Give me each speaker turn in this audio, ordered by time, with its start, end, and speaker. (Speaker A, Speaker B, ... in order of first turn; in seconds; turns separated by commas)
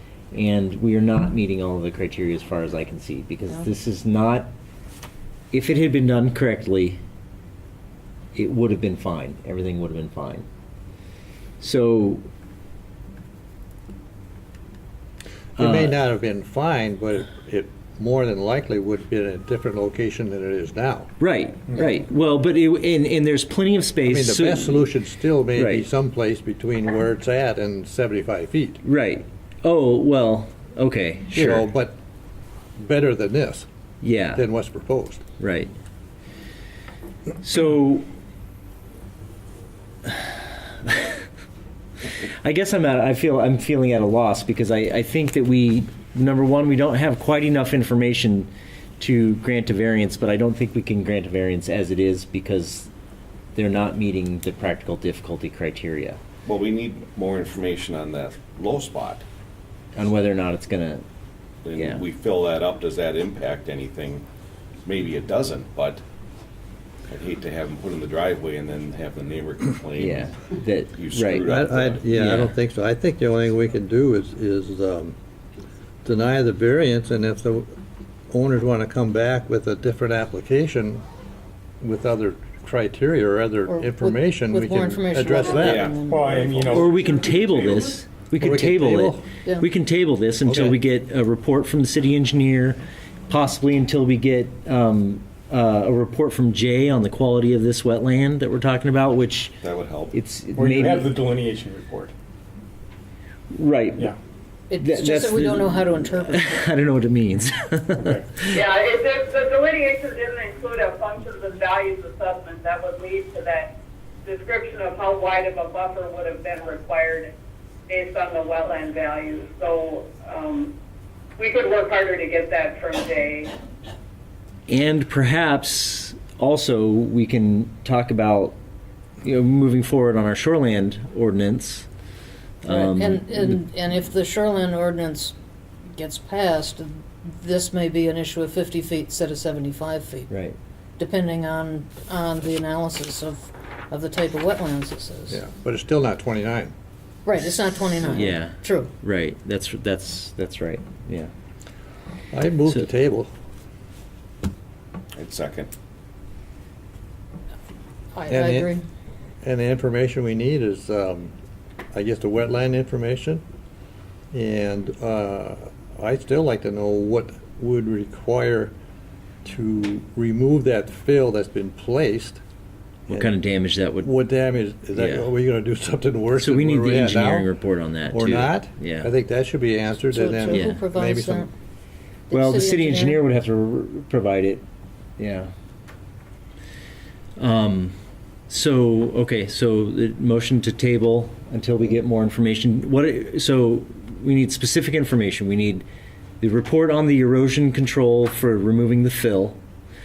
Speaker A: 0.3-4.5, Speaker A: 5.5-7.0, Speaker A: 8.3-10.5, Speaker A: 11.6-12.2, Speaker A: 15.6-15.9, Speaker B: 15.6-21.1, Speaker A: 21.2-24.9, Speaker B: 24.1-28.8, Speaker A: 25.6-25.9, Speaker A: 28.8-31.7, Speaker B: 31.3-32.0, Speaker B: 32.8-33.7, Speaker A: 34.0-34.4, Speaker B: 34.4-35.2, Speaker A: 35.4-35.7, Speaker A: 37.4-38.1, Speaker A: 40.1-41.2, Speaker A: 42.2-52.9, Speaker A: 53.5-56.2, Speaker C: 56.5-59.2, Speaker A: 60.0-61.0, Speaker C: 61.6-64.2, Speaker C: 64.8-66.0, Speaker C: 67.1-70.3, Speaker A: 70.0-71.5, Speaker C: 70.9-72.0, Speaker B: 71.5-75.2, Speaker A: 72.1-72.5, Speaker B: 76.0-77.7, Speaker B: 78.3-81.0, Speaker B: 81.8-86.8, Speaker D: 83.7-86.3, Speaker C: 85.6-86.0, Speaker E: 86.0-88.0, Speaker A: 86.7-99.6, Speaker B: 88.4-89.2, Speaker B: 90.5-90.7, Speaker C: 99.6-100.1, Speaker A: 100.1-101.1, Speaker E: 100.5-102.1, Speaker A: 103.5-104.1, Speaker D: 104.7-106.7, Speaker A: 104.8-108.1, Speaker E: 108.0-108.3, Speaker F: 108.5-113.7, Speaker F: 114.2-117.3, Speaker F: 117.9-120.7, Speaker F: 121.4-123.5, Speaker A: 124.7-128.6, Speaker A: 129.2-131.9, Speaker A: 132.6-133.3, Speaker D: 132.7-135.4, Speaker D: 135.9-140.3, Speaker A: 140.3-140.6, Speaker D: 141.0-145.4, Speaker B: 145.3-146.7, Speaker D: 147.2-148.9, Speaker A: 148.1-151.3, Speaker B: 152.3-153.3, Speaker C: 155.2-155.7, Speaker D: 158.1-158.8, Speaker B: 158.3-158.7, Speaker B: 159.4-161.3, Speaker B: 161.9-163.4, Speaker B: 164.3-168.7, Speaker B: 169.4-172.4, Speaker B: 173.1-173.3, Speaker A: 173.1-174.1, Speaker B: 174.0-177.5, Speaker A: 175.0-175.2, Speaker A: 176.4-179.1, Speaker B: 178.1-181.5, Speaker D: 180.1-181.5, Speaker A: 180.6-180.8, Speaker D: 182.3-183.2, Speaker A: 182.3-184.6, Speaker A: 185.2-185.5, Speaker A: 187.4-187.9, Speaker A: 188.5-195.8, Speaker A: 196.4-199.6